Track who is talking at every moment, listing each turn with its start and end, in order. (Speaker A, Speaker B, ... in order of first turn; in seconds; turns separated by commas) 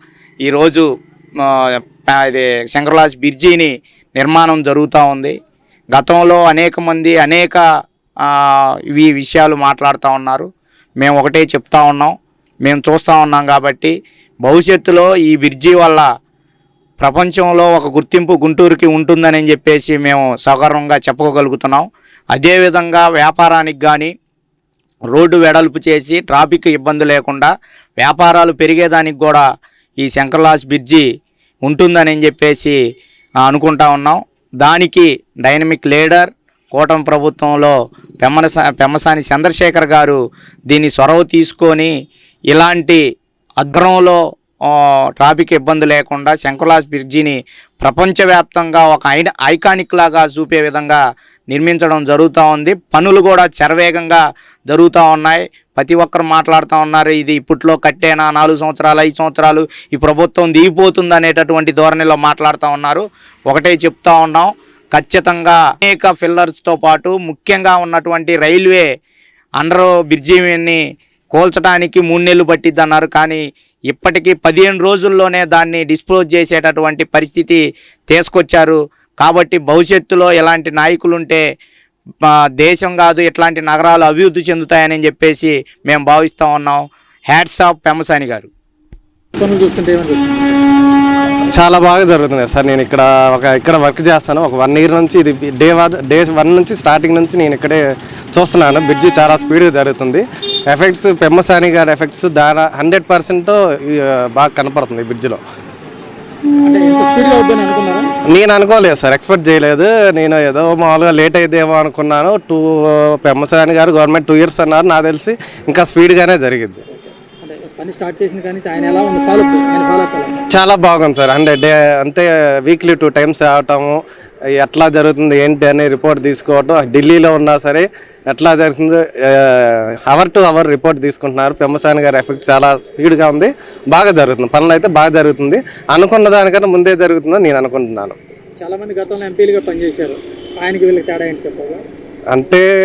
Speaker A: 0.4-0.9, Speaker A: 1.4-5.3, Speaker A: 5.9-7.6, Speaker A: 8.2-10.5, Speaker A: 11.0-16.1, Speaker A: 17.0-24.1, Speaker A: 25.1-29.4, Speaker A: 30.0-31.0, Speaker A: 31.6-32.8, Speaker A: 33.4-40.2, Speaker A: 40.7-41.9, Speaker A: 42.5-43.0, Speaker A: 43.6-68.9, Speaker A: 69.6-70.8, Speaker A: 71.3-81.4, Speaker A: 82.3-88.5, Speaker B: 89.4-90.6, Speaker C: 91.5-97.8, Speaker C: 98.3-105.4, Speaker B: 106.6-108.1, Speaker C: 108.3-116.8, Speaker B: 117.0-120.3, Speaker C: 120.5-124.0, Speaker C: 124.5-138.2, Speaker B: 138.6-141.8, Speaker C: 142.3-142.7